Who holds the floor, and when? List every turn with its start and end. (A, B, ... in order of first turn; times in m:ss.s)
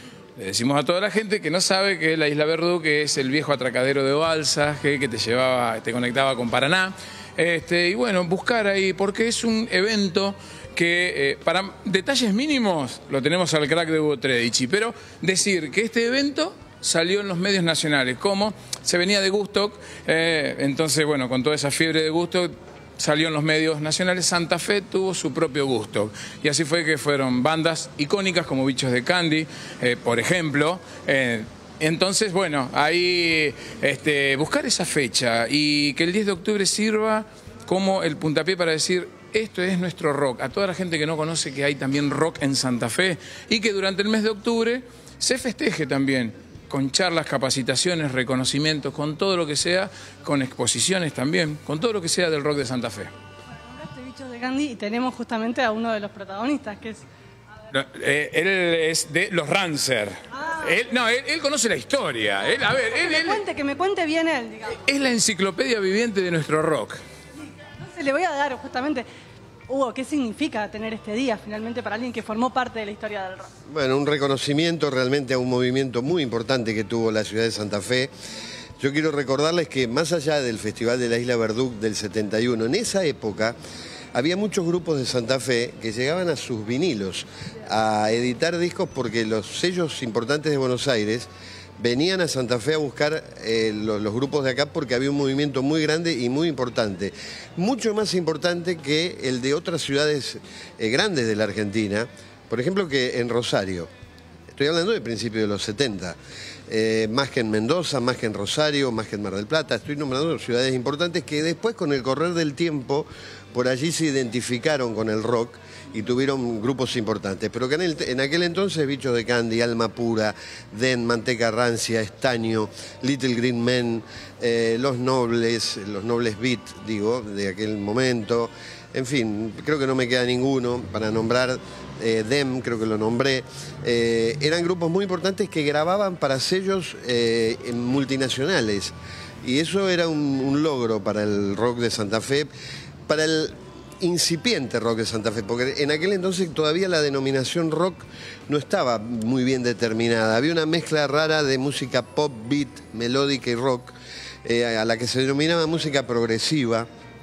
0:00.4-0:53.1 A
0:53.7-0:57.0 B
0:57.7-1:03.4 A
1:00.4-1:00.7 B
1:03.0-1:04.8 B
1:04.8-1:07.0 A
1:07.8-1:09.0 B
1:09.7-1:13.5 B
1:13.7-1:18.1 C
1:18.8-1:23.6 C
1:24.1-1:43.9 C
1:44.5-1:46.2 C
1:46.7-2:22.5 C
2:23.1-2:36.9 C